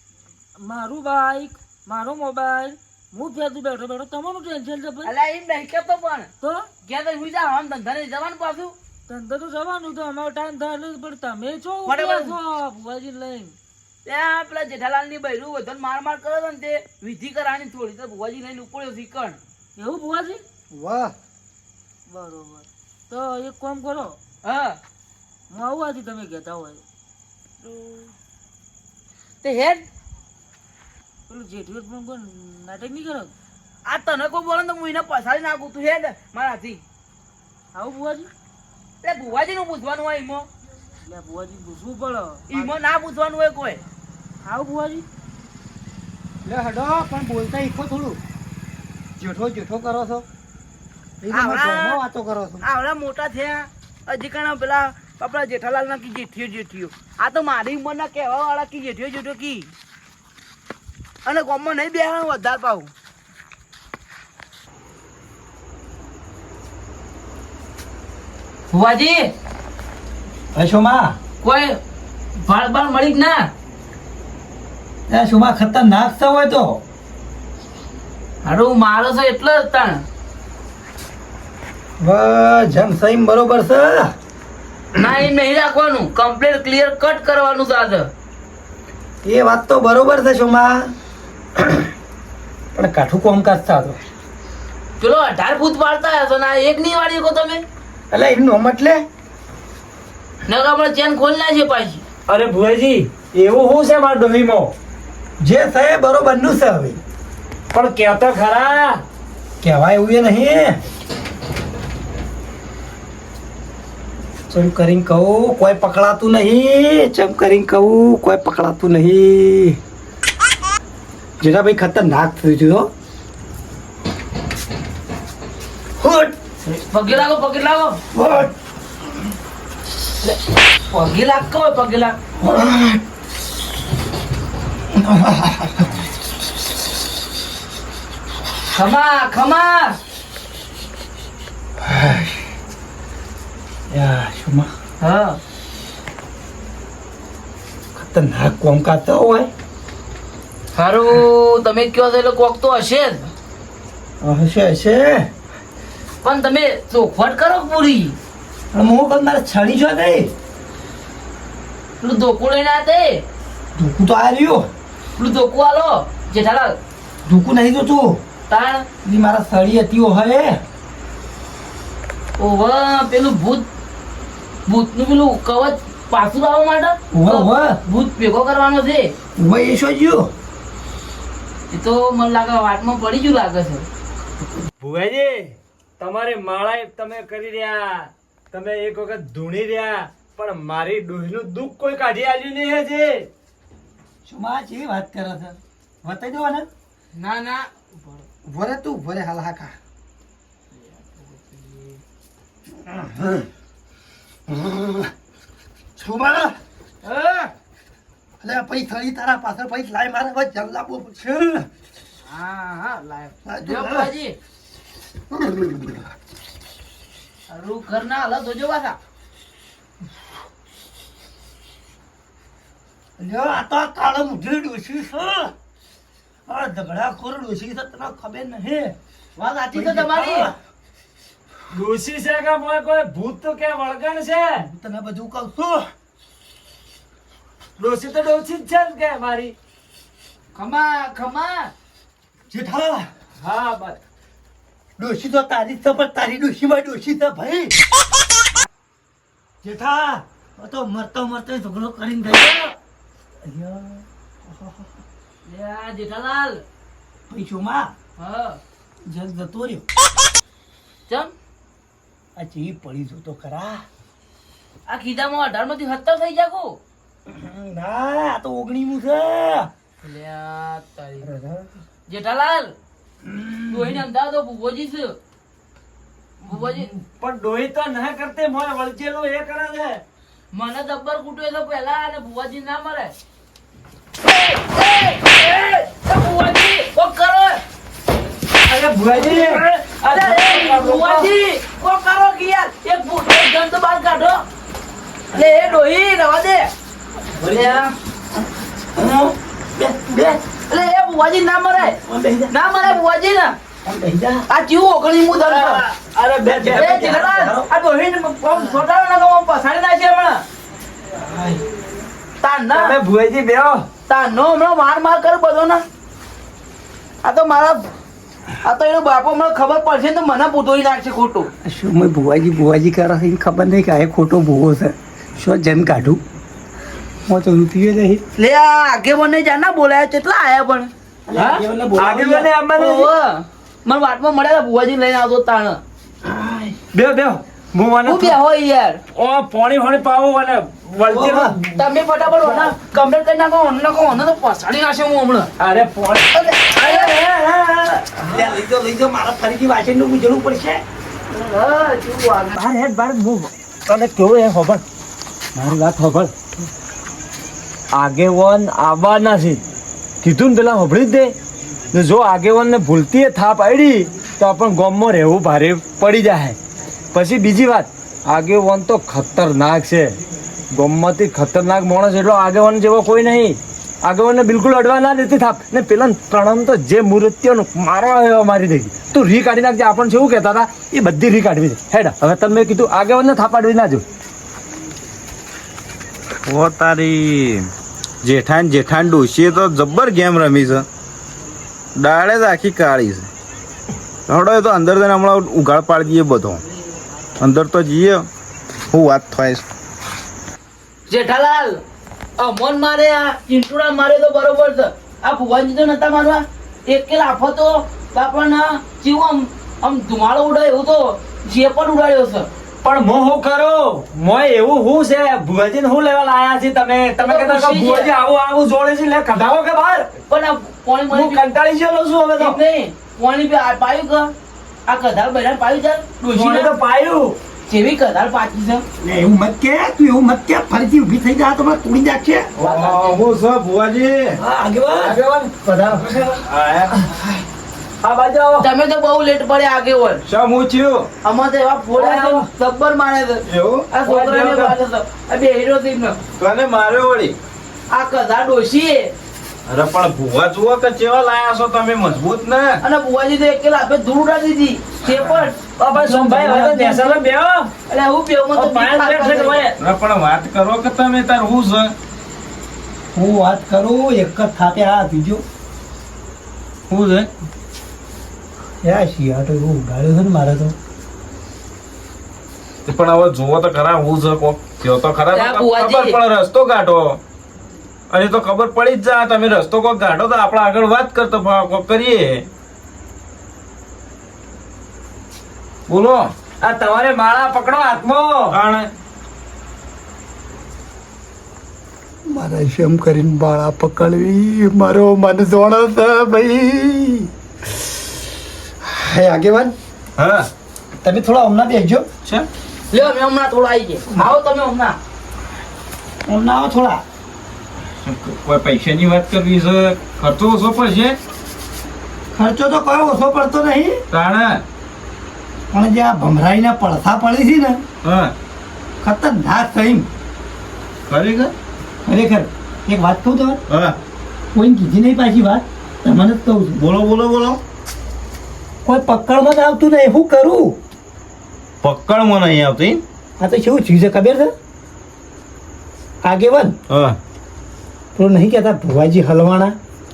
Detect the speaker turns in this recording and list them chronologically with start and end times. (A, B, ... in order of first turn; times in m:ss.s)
0:00.6-0:05.1 A
0:05.0-0:06.3 B
0:06.4-0:06.7 A
0:06.8-0:08.7 B
0:09.1-0:13.5 A
0:11.8-0:12.3 B
0:14.0-0:19.4 B
0:19.8-0:20.4 A
0:20.7-0:21.1 C
0:22.1-0:24.2 A
0:24.4-0:24.8 B
0:25.5-0:26.8 A
0:27.6-0:28.1 B
0:29.4-0:29.8 B
0:31.3-0:33.3 A
0:33.8-0:36.8 B
0:37.7-0:38.3 A
0:39.0-0:40.5 B
0:41.0-0:42.7 A
0:42.5-0:43.8 B
0:44.4-0:45.0 A
0:46.4-0:48.2 C
0:49.2-0:50.3 C
0:51.2-0:52.6 C
0:51.3-0:52.0 B
0:52.6-0:59.7 B
1:01.2-1:02.9 B
1:08.7-1:09.3 B
1:10.5-1:11.2 C
1:11.4-1:11.8 B
1:12.4-1:13.5 B
1:15.1-1:16.8 C
1:18.4-1:20.0 B
1:22.0-1:24.1 C
1:24.9-1:28.1 B
1:29.2-1:30.9 C
1:31.6-1:31.9 C
1:32.7-1:34.0 C
1:35.0-1:37.6 B
1:38.1-1:39.0 C
1:40.4-1:42.0 B
1:42.3-1:44.7 D
1:45.4-1:47.0 C
1:47.7-1:49.0 D
1:49.6-1:50.8 C
1:54.5-1:59.8 C
2:01.4-2:02.9 C
2:06.0-2:06.4 C
2:06.6-2:08.0 B
2:08.1-2:08.5 C
2:10.9-2:12.2 B
2:12.4-2:13.0 C
2:14.9-2:15.9 C
2:18.7-2:20.0 B
2:21.8-2:22.4 C
2:23.9-2:24.7 C
2:25.0-2:25.4 B
2:28.0-2:29.5 C
2:30.7-2:33.3 B
2:34.2-2:35.3 C
2:36.2-2:38.2 B
2:38.7-2:40.3 C
2:42.0-2:43.2 B
2:43.8-2:44.7 C
2:45.2-2:46.8 B
2:47.2-2:48.2 C
2:48.5-2:48.9 B
2:49.0-2:50.6 C
2:52.4-2:53.7 B
2:54.7-2:59.1 B
2:57.1-2:57.8 C
2:59.4-3:00.3 C
3:01.7-3:03.8 B
3:04.8-3:13.3 D
3:14.2-3:16.6 C
3:17.1-3:18.2 B
3:18.4-3:19.8 C
3:20.7-3:22.0 B
3:22.7-3:23.5 C
3:24.5-3:25.1 C
3:26.0-3:26.6 C
3:27.0-3:27.5 B
3:28.4-3:31.7 C
3:32.2-3:34.4 B
3:33.4-3:34.1 C
3:35.3-3:36.0 C
3:37.5-3:39.0 B
3:43.2-3:45.5 C
3:46.5-3:50.5 C
3:49.7-3:50.5 B
3:51.7-3:54.6 D
3:54.6-3:55.9 C
3:57.8-3:59.5 D
4:00.5-4:01.7 B
4:02.5-4:03.1 C
4:03.4-4:04.0 D
4:05.0-4:07.8 C
4:09.6-4:12.7 C
4:13.4-4:15.0 C
4:15.4-4:16.6 B
4:17.3-4:17.9 C
4:18.2-4:18.6 B
4:19.1-4:19.8 C
4:22.4-4:23.8 C
4:24.9-4:26.8 B
4:27.2-4:29.7 C
4:30.0-4:31.3 B
4:31.2-4:31.7 C
4:32.1-4:32.7 B
4:33.2-4:34.0 C
4:33.7-4:35.2 B
4:36.4-4:40.0 D
4:36.5-4:36.9 B
4:40.5-4:43.1 B
4:44.2-4:47.6 B
4:48.6-4:51.3 D
4:49.1-4:54.4 B
4:55.3-4:56.7 B
4:57.4-5:00.4 C
4:57.4-4:57.9 B
5:00.7-5:02.0 B
5:01.9-5:02.5 C
5:02.5-5:03.6 B
5:03.8-5:04.4 C
5:04.5-5:05.8 B
5:05.4-5:07.2 D
5:06.4-5:07.7 C
5:06.7-5:10.4 B
5:11.1-5:11.6 C
5:12.4-5:13.0 B
5:12.7-5:13.9 D
5:14.1-5:15.8 B
5:17.2-5:17.9 B
5:18.6-5:21.5 B
5:21.6-5:26.2 C
5:27.3-5:28.2 C
5:28.4-5:30.9 B
5:31.3-5:32.5 C
5:31.4-5:33.1 D
5:32.7-5:35.8 B
5:36.2-5:36.8 C
5:36.9-5:38.4 D
5:38.0-5:39.0 B
5:39.1-5:41.6 D
5:41.1-5:41.8 C
5:41.8-5:45.5 B
5:45.6-5:48.4 D
5:46.3-5:47.1 B
5:48.2-5:50.8 C
5:51.3-5:52.6 B
5:52.6-5:54.8 D
5:55.5-5:56.3 D
5:57.9-5:59.6 D
6:00.2-6:01.3 D
6:01.9-6:06.6 D
6:07.1-6:10.2 D
6:10.7-6:24.0 D
6:26.4-6:27.7 E
6:28.2-6:30.8 E
6:32.0-6:33.3 E
6:34.3-6:36.6 E
6:37.4-6:38.3 E
6:38.9-6:39.6 E
6:41.1-6:41.8 B
6:42.4-6:52.5 B
6:52.8-7:00.1 D
6:57.2-6:58.1 B
7:00.3-7:01.4 B
7:01.1-7:02.6 D
7:02.4-7:04.3 B
7:04.9-7:06.7 B
7:06.3-7:07.4 D
7:07.7-7:08.8 B
7:09.0-7:12.5 C
7:12.6-7:14.4 E
7:12.6-7:13.2 D
7:14.4-7:15.2 C
7:15.0-7:16.4 D
7:16.4-7:17.4 E
7:18.0-7:18.7 D
7:18.6-7:20.2 B
7:20.2-7:21.1 E
7:21.2-7:26.2 B
7:22.0-7:22.5 D
7:23.4-7:23.9 E
7:24.0-7:24.8 D
7:26.4-7:27.4 E
7:27.9-7:29.1 B
7:29.7-7:32.8 E
7:32.8-7:35.6 B
7:35.8-7:37.7 D
7:35.9-7:37.0 C
7:37.9-7:39.6 B
7:38.5-7:39.8 D
7:39.8-7:41.9 E
7:43.1-7:45.4 C
7:46.9-7:47.3 E
7:48.8-7:50.7 C
7:52.8-7:57.2 E
7:55.3-7:56.2 B
7:58.1-8:02.4 E
8:05.9-8:06.3 E
8:06.6-8:08.6 D
8:08.5-8:08.9 E
8:12.3-8:17.3 C
8:18.8-8:19.7 C
8:20.2-8:20.5 E
8:21.0-8:22.1 C
8:22.9-8:25.0 B
8:26.3-8:27.0 C
8:28.0-8:31.2 E
8:32.3-8:34.0 C
8:34.1-8:34.6 E
8:35.7-8:37.8 C
8:38.0-8:38.3 E
8:39.0-8:40.1 C
8:41.1-8:41.5 E
8:42.0-8:43.6 C
8:43.7-8:44.0 E
8:44.5-8:46.8 C
8:46.8-8:47.6 E
8:48.8-8:50.8 C
8:51.8-8:53.0 E
8:53.4-8:54.5 C
8:56.2-8:56.8 C
8:56.9-8:57.2 E
8:58.1-8:59.8 C